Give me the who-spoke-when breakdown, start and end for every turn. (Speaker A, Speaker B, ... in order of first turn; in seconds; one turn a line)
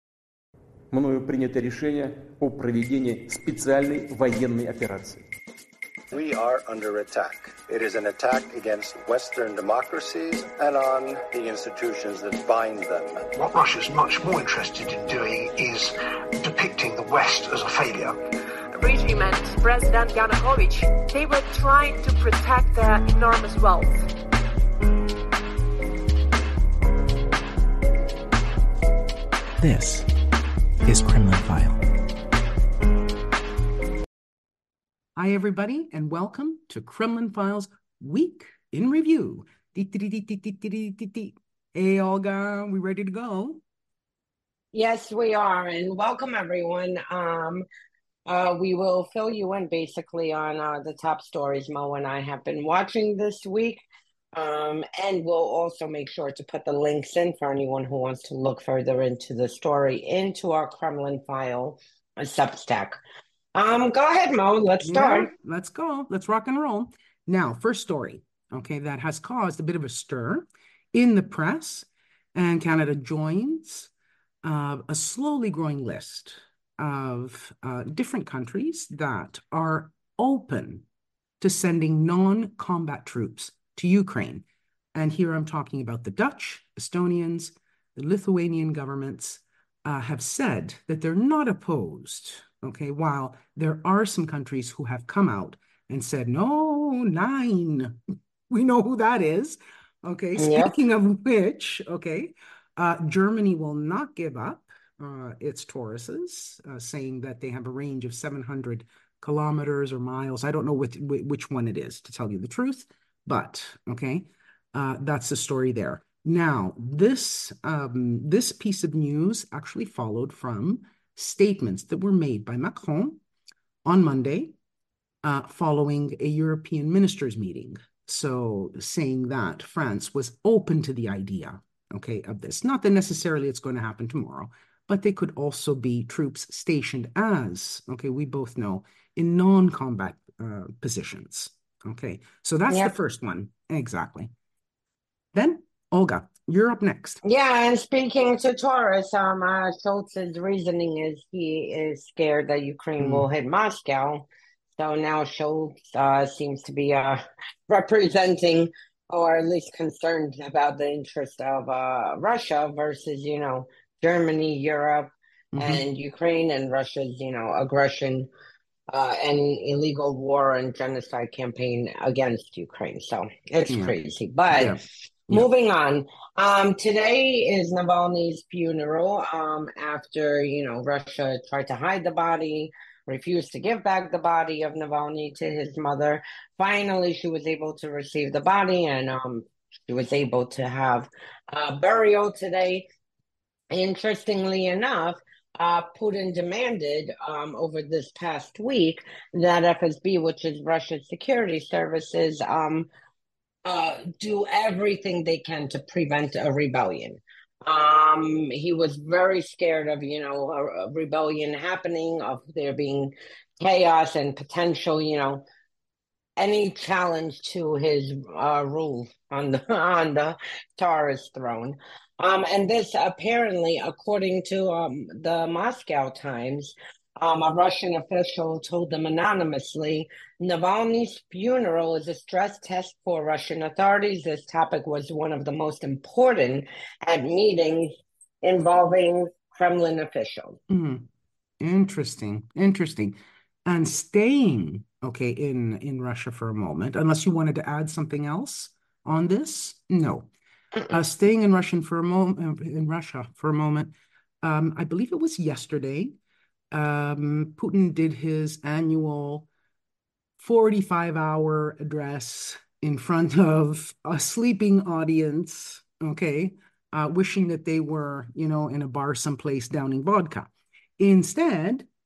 Speaker A: 0.9-5.2
Speaker B: 6.1-13.2
Speaker C: 13.3-18.2
Speaker D: 18.7-24.0
Speaker E: 29.6-30.1
Speaker E: 30.8-31.8
Speaker E: 35.2-43.6
Speaker F: 44.7-47.6
Speaker F: 48.3-53.8
Speaker F: 54.4-63.0
Speaker F: 63.5-65.3
Speaker E: 64.8-73.9
Speaker E: 74.4-80.8
Speaker E: 81.4-98.0
Speaker E: 98.5-123.2
Speaker F: 100.4-100.8
Speaker E: 123.8-124.5
Speaker E: 125.2-144.3
Speaker E: 145.3-147.2
Speaker F: 147.2-154.3
Speaker E: 153.0-153.3
Speaker F: 154.8-168.3
Speaker E: 165.5-165.8
Speaker F: 168.9-174.8
Speaker E: 173.7-173.9
Speaker E: 174.5-175.4
Speaker F: 175.3-192.9
Speaker F: 193.7-202.9
Speaker F: 203.7-215.4
Speaker F: 216.4-240.6
Speaker E: 240.7-241.1
Speaker E: 241.6-250.3
Speaker E: 250.9-256.2
Speaker E: 256.7-259.5
Speaker E: 260.4-271.9